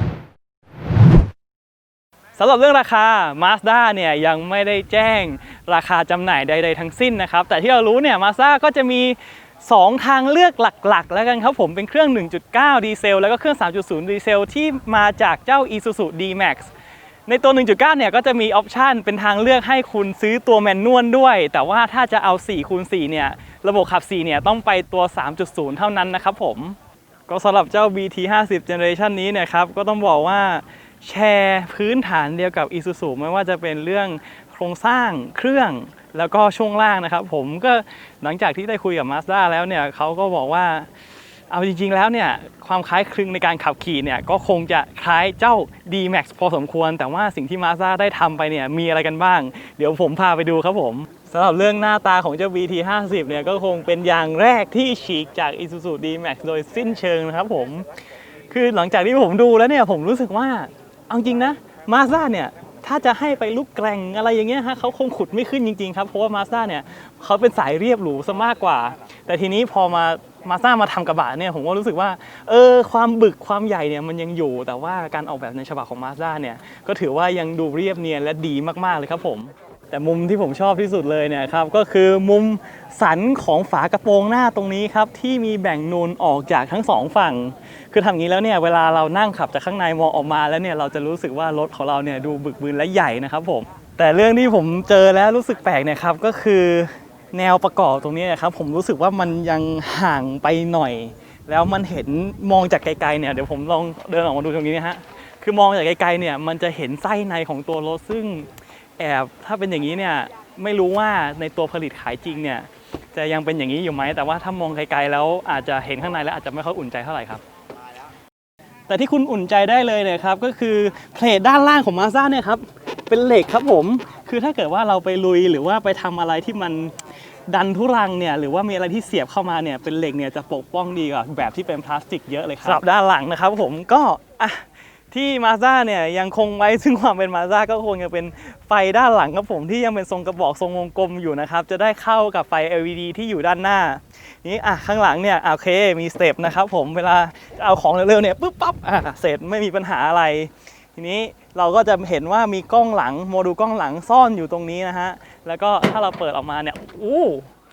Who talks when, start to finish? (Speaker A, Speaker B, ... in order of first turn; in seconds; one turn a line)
Speaker A: 2.4-16.7
Speaker A: 17.3-26.8
Speaker A: 27.3-40.9
Speaker A: 41.5-57.8
Speaker A: 58.5-117.4
Speaker A: 118.9-126.9
Speaker A: 127.5-157.5